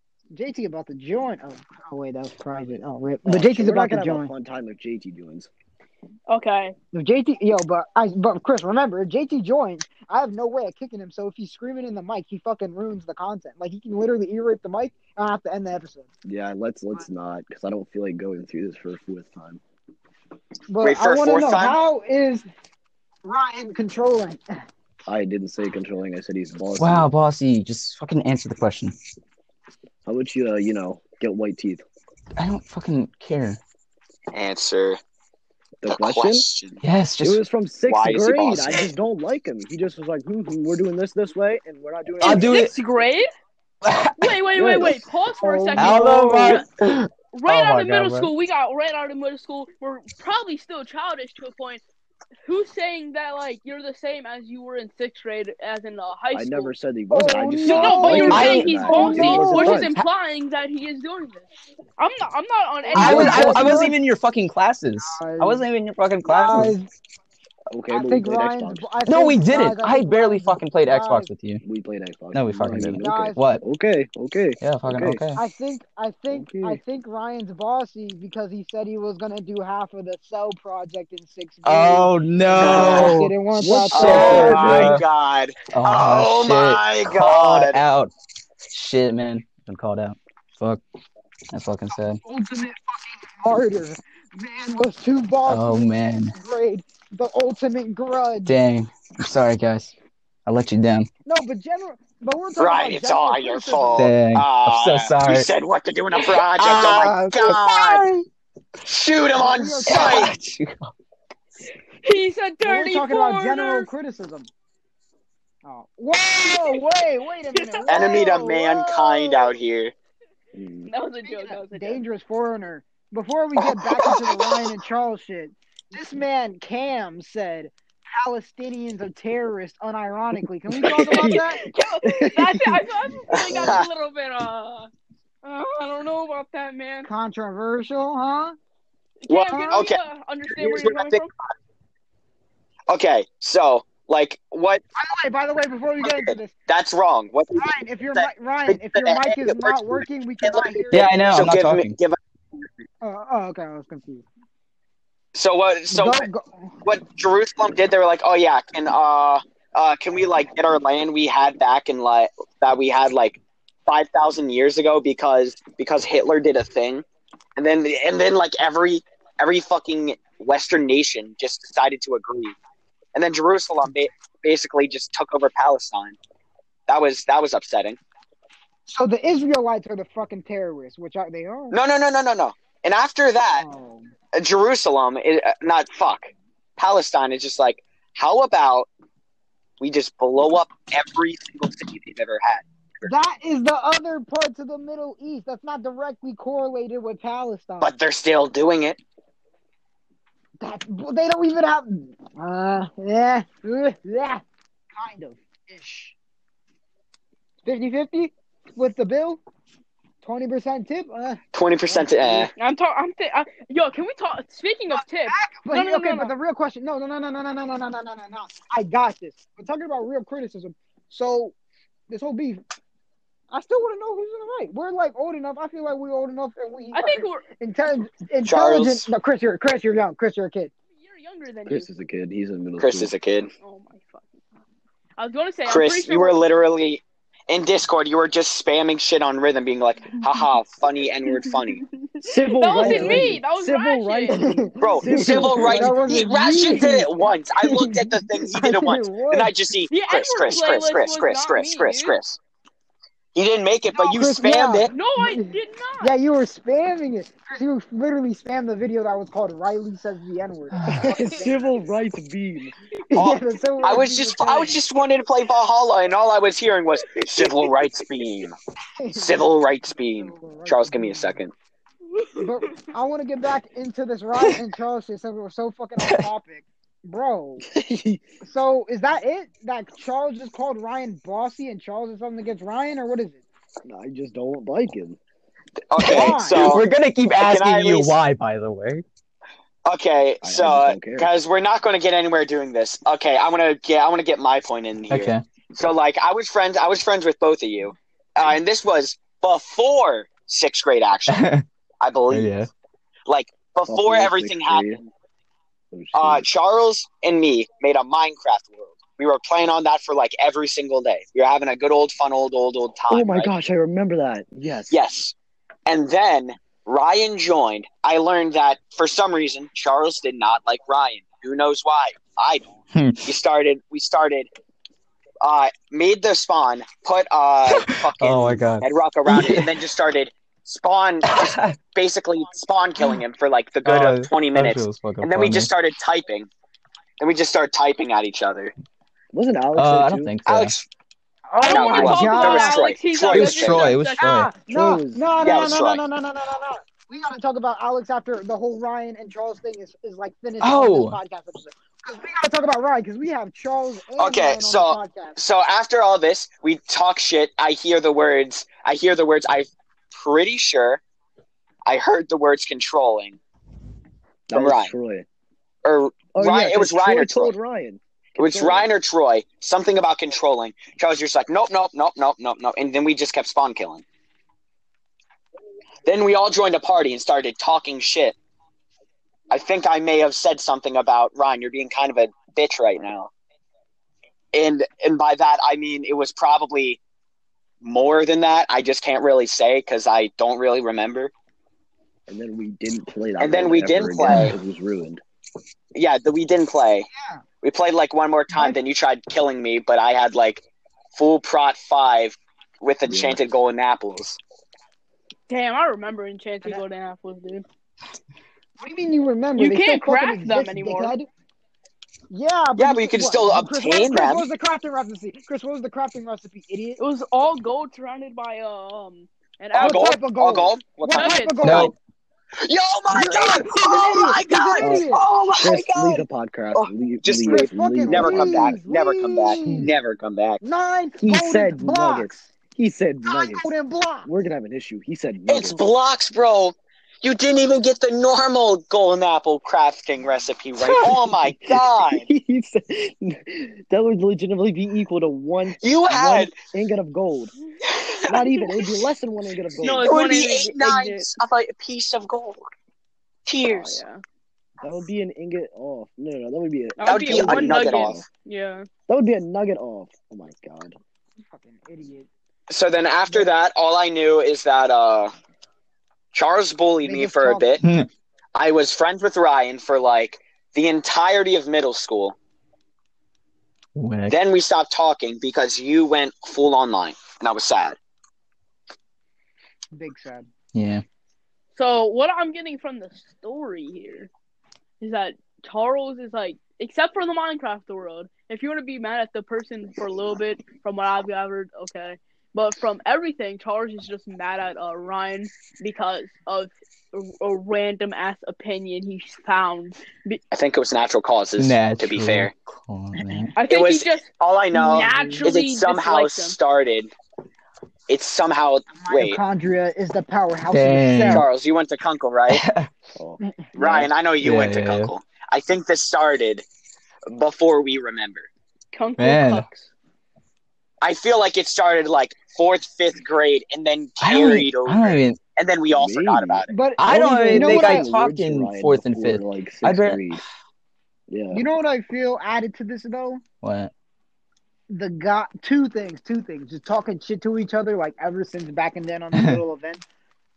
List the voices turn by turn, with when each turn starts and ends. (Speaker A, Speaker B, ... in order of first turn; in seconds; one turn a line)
Speaker A: 0.3-4.3
Speaker B: 3.2-5.5
Speaker C: 6.3-6.8
Speaker A: 6.9-16.1
Speaker B: 16.2-19.6
Speaker A: 20.7-22.5
Speaker D: 20.8-21.8
Speaker A: 23.2-24.4
Speaker B: 25.1-27.1
Speaker E: 26.8-28.9
Speaker B: 30.1-31.8
Speaker E: 32.4-33.6
Speaker D: 34.3-35.0
Speaker B: 35.8-36.5
Speaker D: 35.9-36.8
Speaker E: 36.8-37.4
Speaker B: 37.2-42.5
Speaker D: 37.9-38.9
Speaker E: 42.2-42.7
Speaker C: 42.2-43.3
Speaker E: 43.8-44.3
Speaker C: 44.2-46.6
Speaker B: 44.5-45.0
Speaker A: 45.4-46.4
Speaker E: 45.8-48.3
Speaker C: 47.3-51.8
Speaker C: 52.5-56.7
Speaker B: 56.3-59.9
Speaker A: 57.1-59.9
Speaker C: 57.6-63.9
Speaker E: 58.1-60.1
Speaker A: 62.9-64.0
Speaker E: 62.9-66.8
Speaker A: 65.0-65.7
Speaker A: 66.2-66.9
Speaker B: 67.7-68.9
Speaker A: 67.9-71.3
Speaker E: 69.1-71.6
Speaker B: 71.6-75.2
Speaker E: 72.3-73.6
Speaker A: 73.0-73.4
Speaker E: 74.6-75.4
Speaker A: 75.4-84.9
Speaker B: 76.3-76.8
Speaker E: 81.7-83.4
Speaker D: 82.6-83.2
Speaker B: 83.5-85.0
Speaker E: 83.9-85.0
Speaker D: 83.9-87.8
Speaker E: 85.7-88.1
Speaker E: 88.7-90.8
Speaker E: 91.5-92.2
Speaker A: 92.2-98.6
Speaker E: 95.5-96.3
Speaker E: 98.5-99.9
Speaker E: 100.5-101.1
Speaker A: 101.3-104.1
Speaker D: 102.6-108.1
Speaker E: 104.0-105.5
Speaker A: 106.6-108.2
Speaker D: 108.8-110.3
Speaker A: 109.4-110.3
Speaker E: 109.9-110.9
Speaker C: 112.0-113.9
Speaker A: 112.6-114.5
Speaker A: 115.7-118.4
Speaker C: 117.5-119.5
Speaker D: 117.9-119.9
Speaker B: 120.5-120.9
Speaker C: 120.9-122.0
Speaker A: 121.2-131.6
Speaker D: 123.9-124.6
Speaker B: 130.8-133.8
Speaker C: 131.0-134.9
Speaker D: 133.4-133.9
Speaker C: 135.4-137.1
Speaker A: 137.1-138.6
Speaker C: 139.2-141.3
Speaker D: 139.3-141.3
Speaker D: 142.9-144.8
Speaker A: 145.0-146.5
Speaker D: 146.0-152.2
Speaker A: 147.6-151.2
Speaker E: 150.9-152.0
Speaker A: 153.0-154.2
Speaker D: 155.3-156.3
Speaker A: 155.9-156.8
Speaker D: 156.8-167.1
Speaker D: 167.6-172.6
Speaker D: 173.2-176.2
Speaker D: 176.9-178.0
Speaker A: 178.9-181.8
Speaker D: 181.7-183.7
Speaker A: 183.6-184.1
Speaker D: 184.3-188.9
Speaker D: 189.8-193.1
Speaker A: 193.0-197.9
Speaker D: 197.8-199.0
Speaker A: 200.6-206.2
Speaker A: 207.7-209.4
Speaker A: 210.2-212.5
Speaker D: 211.5-212.5
Speaker C: 212.6-216.3
Speaker A: 215.3-221.6
Speaker A: 222.1-222.6
Speaker A: 223.5-230.7
Speaker C: 226.9-227.4
Speaker D: 228.4-229.1
Speaker C: 230.9-231.9
Speaker B: 231.7-233.1
Speaker D: 232.8-233.5
Speaker C: 233.6-234.4
Speaker C: 235.2-236.4
Speaker D: 235.7-241.8
Speaker C: 241.3-244.4
Speaker B: 242.2-246.2
Speaker A: 242.8-243.3
Speaker A: 244.3-249.5
Speaker D: 244.8-252.4
Speaker C: 249.9-252.2
Speaker D: 253.3-254.9
Speaker A: 253.9-261.7
Speaker C: 254.9-256.1
Speaker E: 260.7-261.1
Speaker B: 260.9-262.7
Speaker C: 261.1-261.5
Speaker A: 263.1-264.8
Speaker D: 263.1-268.6
Speaker A: 269.0-269.5
Speaker D: 269.1-271.5
Speaker A: 270.1-271.4
Speaker C: 272.2-272.4
Speaker A: 272.4-277.7
Speaker E: 276.0-276.3
Speaker B: 277.7-278.2
Speaker A: 278.4-283.4
Speaker B: 283.9-285.2
Speaker D: 285.9-286.9
Speaker E: 286.0-289.0
Speaker A: 286.0-286.8
Speaker D: 287.4-288.2
Speaker D: 289.9-301.4
Speaker B: 290.4-291.3
Speaker E: 295.1-295.4
Speaker E: 301.3-301.6
Speaker D: 302.0-302.5
Speaker E: 302.3-302.7
Speaker D: 303.3-305.1
Speaker B: 303.9-305.0
Speaker B: 305.9-306.5
Speaker D: 306.1-313.5
Speaker B: 313.1-315.0
Speaker D: 314.9-315.3
Speaker D: 315.9-322.7
Speaker E: 322.9-323.3
Speaker D: 323.3-324.5
Speaker D: 325.4-336.5
Speaker E: 327.7-329.8
Speaker E: 331.2-331.8
Speaker E: 333.8-335.7
Speaker D: 337.2-338.7
Speaker B: 339.3-340.3
Speaker E: 339.8-340.7
Speaker D: 340.5-340.9
Speaker A: 341.5-342.8
Speaker C: 341.6-344.3
Speaker D: 341.6-344.0
Speaker E: 343.3-344.5
Speaker A: 344.2-355.4
Speaker B: 344.7-345.2
Speaker D: 345.4-346.0
Speaker E: 350.6-351.2
Speaker D: 354.2-361.0
Speaker D: 361.9-363.4
Speaker B: 364.5-365.3
Speaker D: 364.5-364.9
Speaker D: 365.8-367.5
Speaker B: 366.3-368.9
Speaker D: 368.4-374.0
Speaker D: 376.1-378.4
Speaker D: 379.5-383.3
Speaker D: 384.5-387.0
Speaker D: 387.8-391.3
Speaker B: 392.3-395.2
Speaker D: 393.4-394.5
Speaker E: 394.3-394.5
Speaker D: 395.9-397.1
Speaker A: 397.1-397.4
Speaker D: 397.6-400.6
Speaker A: 398.5-398.8
Speaker D: 401.1-404.4
Speaker B: 403.1-403.4
Speaker C: 405.5-407.6
Speaker A: 408.8-411.3
Speaker C: 409.6-411.1
Speaker A: 412.3-417.0
Speaker D: 412.8-414.5
Speaker C: 417.0-420.1
Speaker D: 419.7-421.9
Speaker A: 419.8-421.9
Speaker C: 421.1-421.6
Speaker E: 421.6-421.9
Speaker D: 422.6-430.6
Speaker A: 423.1-425.3
Speaker B: 424.8-428.8
Speaker A: 427.5-429.9
Speaker B: 429.6-429.9
Speaker A: 430.6-432.4
Speaker B: 431.2-433.7
Speaker A: 433.3-434.3
Speaker B: 434.2-435.9
Speaker D: 435.5-442.3
Speaker B: 440.8-447.5
Speaker D: 445.7-446.5
Speaker D: 447.9-448.8
Speaker B: 448.3-450.2
Speaker C: 449.8-451.3
Speaker D: 449.8-452.6
Speaker D: 453.5-454.0
Speaker C: 453.6-454.2
Speaker B: 454.8-458.3
Speaker C: 457.0-458.9
Speaker D: 457.1-458.2
Speaker B: 459.1-461.0
Speaker A: 461.5-462.3
Speaker D: 462.7-465.3
Speaker D: 466.3-467.8
Speaker A: 467.0-467.8
Speaker E: 467.8-468.1
Speaker D: 468.6-472.4
Speaker E: 473.9-474.4
Speaker D: 474.3-478.0
Speaker A: 479.9-480.5
Speaker E: 480.7-481.0
Speaker C: 481.8-484.3
Speaker C: 485.0-500.4
Speaker D: 500.5-502.5
Speaker E: 501.6-503.6
Speaker C: 503.6-506.6
Speaker D: 503.7-507.1
Speaker A: 504.8-505.5
Speaker D: 508.1-509.4
Speaker A: 508.9-511.5
Speaker E: 510.7-511.5
Speaker D: 511.3-512.6
Speaker E: 512.5-512.9
Speaker B: 513.2-514.1
Speaker D: 513.8-516.6
Speaker E: 514.4-515.1
Speaker D: 517.3-518.5
Speaker C: 518.9-519.9
Speaker E: 519.2-519.7
Speaker D: 521.0-526.7
Speaker E: 524.2-525.4
Speaker B: 525.9-530.4
Speaker A: 526.7-528.1
Speaker E: 527.0-530.4
Speaker B: 531.3-531.6
Speaker A: 531.5-533.4
Speaker E: 533.6-533.9
Speaker A: 534.9-540.0
Speaker E: 539.3-539.6